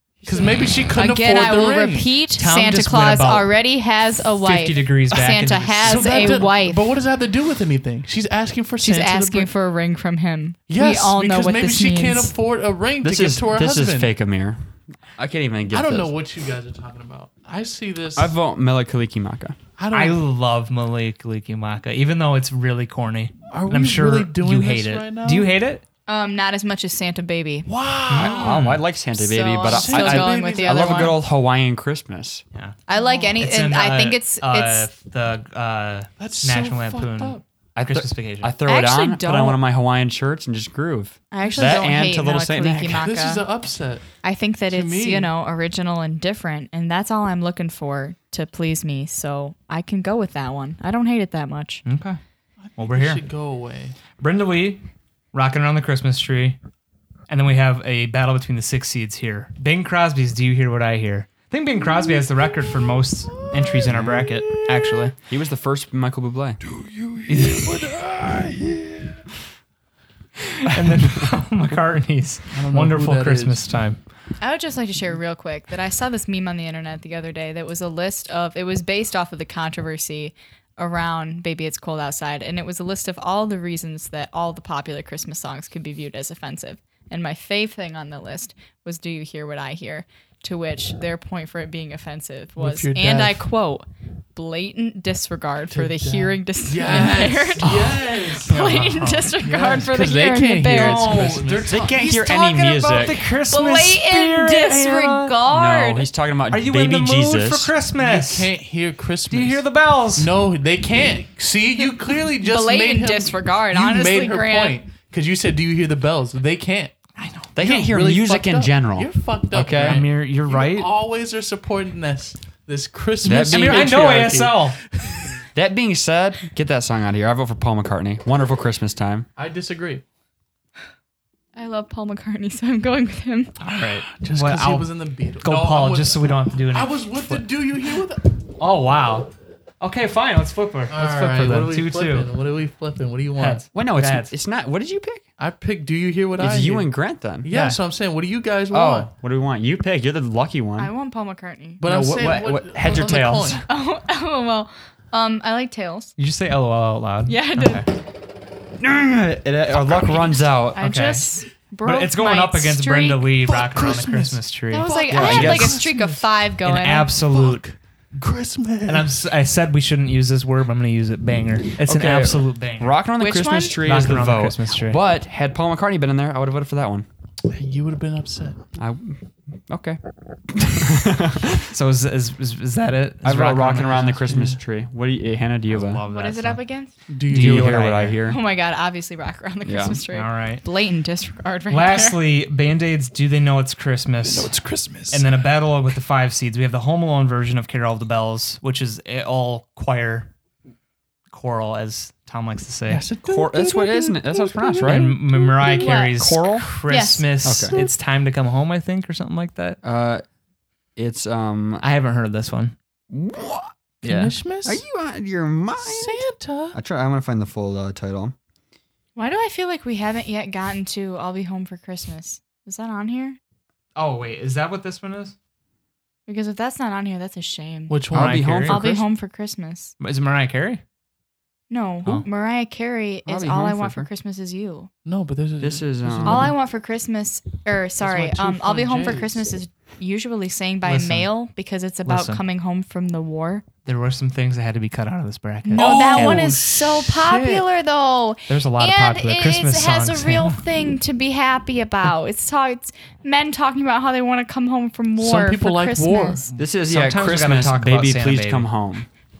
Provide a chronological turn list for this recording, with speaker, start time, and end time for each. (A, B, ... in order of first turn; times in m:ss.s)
0:00.2-0:02.2 A
0:00.9-0:06.9 B
0:02.4-0:03.5 C
0:04.4-0:06.3 C
0:05.8-0:09.5 A
0:08.8-0:12.3 B
0:10.7-0:14.1 A
0:13.0-0:16.1 D
0:15.7-0:18.3 A
0:18.2-0:19.6 D
0:19.8-0:20.2 A
0:19.9-0:25.8 C
0:23.5-0:25.5 A
0:26.1-0:27.7 B
0:27.7-0:28.7 A
0:28.1-0:28.8 C
0:28.1-0:32.4 D
0:29.1-0:31.2 B
0:29.6-0:31.1 A
0:32.9-0:34.9 B
0:32.9-0:33.3 A
0:33.4-0:38.5 C
0:36.2-0:37.4 A
0:37.8-0:43.0 D
0:38.6-0:39.6 B
0:41.3-0:43.4 B
0:41.5-0:41.8 A
0:42.9-0:44.0 A
0:44.2-0:51.8 B
0:44.7-0:45.3 A
0:51.8-0:52.2 C
0:52.6-0:54.0 A
0:52.8-0:53.2 C
0:54.2-0:56.6 C
0:57.3-1:05.1 C
1:03.4-1:05.1 A
1:05.3-1:06.6 D
1:06.9-1:09.2 A
1:07.3-1:07.9 C
1:10.6-1:14.0 C
1:12.5-1:13.6 A
1:14.4-1:41.4 B
1:32.6-1:33.4 A
1:35.7-1:38.6 A
1:37.6-1:39.3 C
1:39.4-1:41.9 A
1:40.7-1:45.4 C
1:41.7-1:43.3 D
1:42.0-1:46.1 B
1:45.5-1:47.7 D
1:46.5-1:48.5 C
1:48.0-1:56.9 A
1:49.3-1:50.3 C
1:52.4-1:54.8 B
1:57.2-1:57.5 C
1:57.5-2:00.0 D
1:57.6-2:05.4 A
1:59.6-2:00.9 C
2:03.2-2:04.3 D
2:03.2-2:04.8 C
2:05.5-2:09.3 D
2:09.4-2:10.0 A
2:11.6-2:13.5 B
2:13.6-2:18.2 A
2:13.7-2:14.9 C
2:15.4-2:17.4 C
2:18.6-2:19.3 C
2:19.8-2:22.3 C
2:20.9-2:23.6 A
2:23.4-2:24.3 C
2:23.7-2:25.2 D
2:25.4-2:26.9 A
2:26.4-2:27.5 D
2:27.4-2:29.1 A
2:27.5-2:27.8 C
2:28.7-2:30.9 D
2:30.8-2:31.8 B
2:31.8-2:33.6 A
2:31.8-2:33.6 D
2:33.7-2:36.1 B
2:36.2-2:37.8 C
2:37.3-2:37.8 B
2:38.8-2:40.8 D
2:40.7-2:43.3 B
2:40.8-2:41.2 C
2:41.8-2:45.8 C
2:43.4-2:46.2 A
2:44.7-2:47.1 B
2:45.1-2:45.8 D
2:46.6-2:47.6 C
2:47.3-2:49.2 A
2:48.9-2:53.0 C
2:51.8-2:57.1 D
2:53.2-2:53.8 B
2:53.8-2:55.0 C
2:57.5-2:58.6 A
2:58.8-3:01.7 D
3:01.7-3:04.2 C
3:03.2-3:06.0 D
3:03.8-3:04.6 A
3:05.7-3:06.6 C
3:06.1-3:06.9 B
3:07.1-3:07.8 A
3:07.2-3:08.2 C
3:07.3-3:08.4 D
3:08.2-3:12.2 B
3:09.6-3:10.0 D
3:10.1-3:10.6 C
3:11.7-3:14.5 C
3:14.2-3:15.2 A
3:15.1-3:20.3 C
3:21.3-3:23.0 C
3:22.9-3:25.9 A
3:23.2-3:25.2 D
3:24.8-3:29.8 C
3:25.6-3:26.2 B
3:25.9-3:26.7 D
3:26.9-3:27.3 B
3:27.4-3:27.8 D
3:29.8-3:30.2 D
3:31.0-3:31.8 D
3:31.8-3:32.7 C
3:33.1-3:33.7 D
3:34.0-3:34.3 C
3:34.0-3:34.8 A
3:34.6-3:38.3 D
3:35.8-3:36.8 A
3:39.2-3:43.4 B
3:44.0-3:45.3 C
3:46.3-3:48.1 B
3:47.9-3:48.5 A
3:48.1-3:49.0 D
3:48.1-3:48.8 C
3:48.6-3:49.9 B
3:50.0-3:50.8 C
3:51.7-3:54.9 B
3:53.2-3:54.1 D
3:55.0-3:56.5 A
3:55.6-3:56.5 D
3:56.2-4:03.6 B
3:58.0-3:59.5 A
4:00.8-4:01.3 C
4:02.0-4:02.4 C
4:03.8-4:06.6 C
4:05.6-4:16.4 B
4:05.7-4:07.6 A
4:08.5-4:10.6 C
4:15.2-4:16.5 A
4:16.5-4:18.7 C
4:16.6-4:19.1 D